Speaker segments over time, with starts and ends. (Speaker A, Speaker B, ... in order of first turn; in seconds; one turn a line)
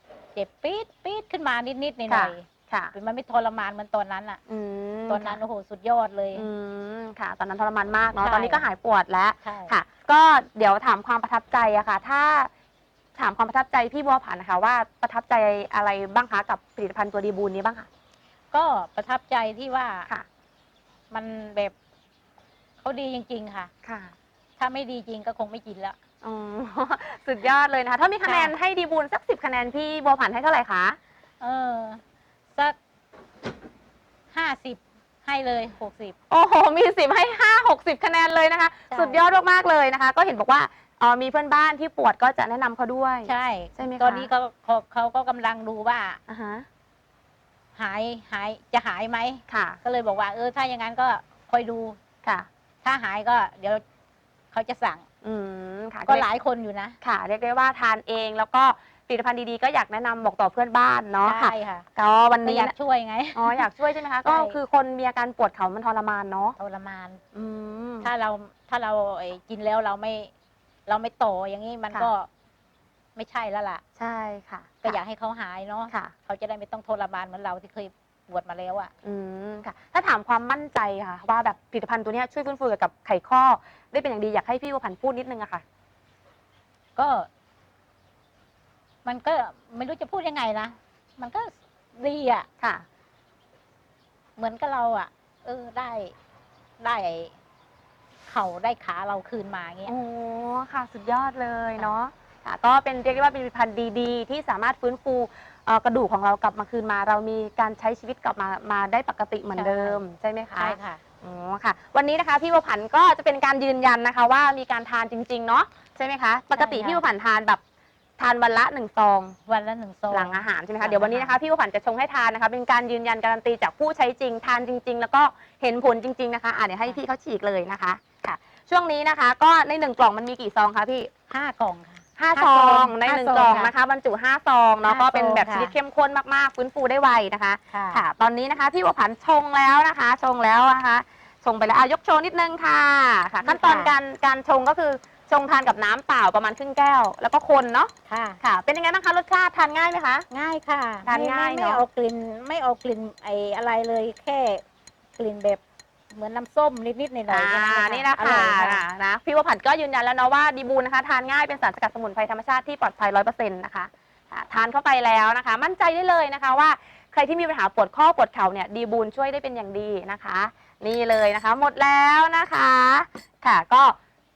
Speaker A: 0.3-4.4
Speaker B: 2.1-2.9
Speaker B: 4.5-5.4
Speaker A: 5.1-6.5
Speaker B: 6.3-12.5
Speaker A: 8.2-8.7
Speaker A: 9.4-9.8
Speaker B: 13.2-17.9
Speaker A: 18.5-20.1
Speaker A: 21.1-21.7
Speaker A: 22.8-23.7
Speaker B: 23.8-24.1
Speaker A: 24.6-26.0
Speaker B: 26.2-31.0
Speaker A: 28.2-28.5
Speaker A: 31.4-32.0
Speaker A: 34.3-36.1
Speaker B: 36.3-44.3
Speaker A: 38.9-39.2
Speaker A: 43.2-46.2
Speaker B: 46.3-46.7
Speaker A: 47.8-52.0
Speaker B: 49.5-49.8
Speaker A: 52.8-53.8
Speaker A: 54.5-55.0
Speaker B: 55.2-56.3
Speaker A: 56.1-57.0
Speaker B: 57.0-62.7
Speaker A: 61.2-61.9
Speaker A: 62.4-63.7
Speaker B: 63.4-66.6
Speaker A: 64.2-64.6
Speaker A: 66.6-67.2
Speaker B: 67.3-68.1
Speaker A: 68.0-70.3
Speaker A: 70.9-72.3
Speaker A: 73.2-73.8
Speaker B: 74.0-75.0
Speaker A: 74.8-78.9
Speaker B: 79.0-85.6
Speaker A: 87.0-87.3
Speaker A: 89.0-92.5
Speaker B: 92.6-92.8
Speaker A: 94.4-96.2
Speaker A: 96.8-97.3
Speaker A: 98.3-99.9
Speaker B: 99.9-117.6
Speaker A: 109.5-110.0
Speaker A: 110.6-111.0
Speaker A: 116.5-117.0
Speaker B: 118.2-119.4
Speaker A: 119.5-121.4
Speaker B: 120.1-131.1
Speaker A: 131.3-133.7
Speaker B: 132.2-150.3
Speaker A: 134.8-135.7
Speaker A: 137.7-138.0
Speaker A: 143.4-143.9
Speaker A: 148.1-148.4
Speaker A: 150.3-154.6
Speaker B: 151.1-151.8
Speaker A: 155.2-155.6
Speaker A: 156.1-158.8
Speaker B: 157.3-174.0